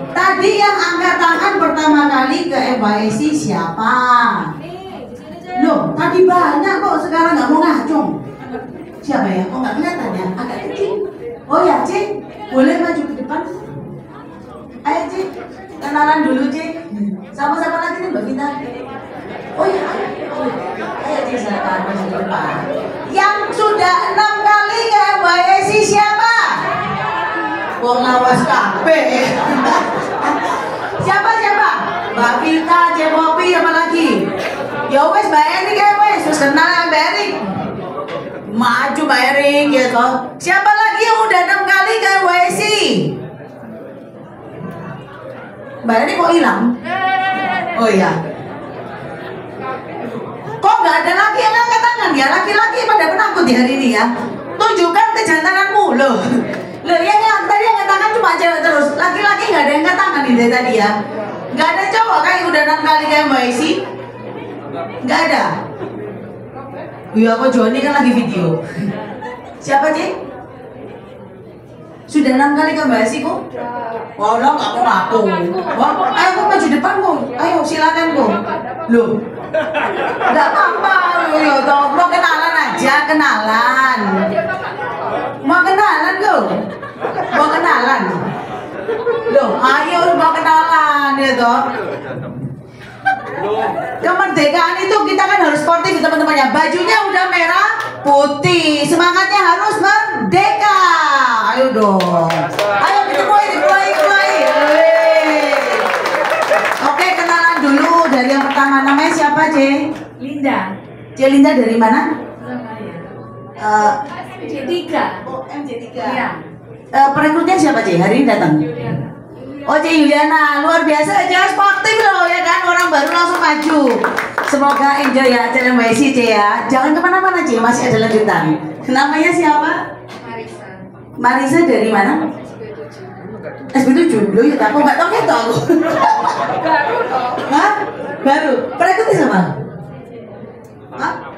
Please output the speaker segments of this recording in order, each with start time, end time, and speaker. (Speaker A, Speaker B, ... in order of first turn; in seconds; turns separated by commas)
Speaker A: 0.1-4.5, Speaker A: 5.5-8.2, Speaker A: 9.0-13.6, Speaker A: 14.8-15.3, Speaker A: 15.8-18.7, Speaker A: 19.6-26.7, Speaker A: 27.8-34.3, Speaker A: 34.9-37.4, Speaker A: 38.5-43.1, Speaker A: 45.8-46.7, Speaker A: 47.7-48.2, Speaker A: 50.6-60.9, Speaker A: 61.5-63.8, Speaker A: 65.0-65.5, Speaker A: 67.1-68.6, Speaker A: 69.6-70.1, Speaker A: 72.1-73.4, Speaker A: 74.2-79.2, Speaker A: 80.3-84.3, Speaker A: 85.4-86.4, Speaker A: 87.2-88.2, Speaker A: 89.3-91.6, Speaker A: 94.0-105.9, Speaker A: 106.8-109.7, Speaker B: 110.2-110.7, Speaker A: 111.2-112.1, Speaker B: 112.4-113.1, Speaker A: 113.6-114.0, Speaker B: 114.2-115.2, Speaker A: 115.2-116.2, Speaker B: 116.0-116.4, Speaker A: 116.9-119.0, Speaker A: 119.6-129.8, Speaker B: 130.3-130.7, Speaker A: 131.2-132.2, Speaker A: 133.7-136.5, Speaker A: 137.4-139.5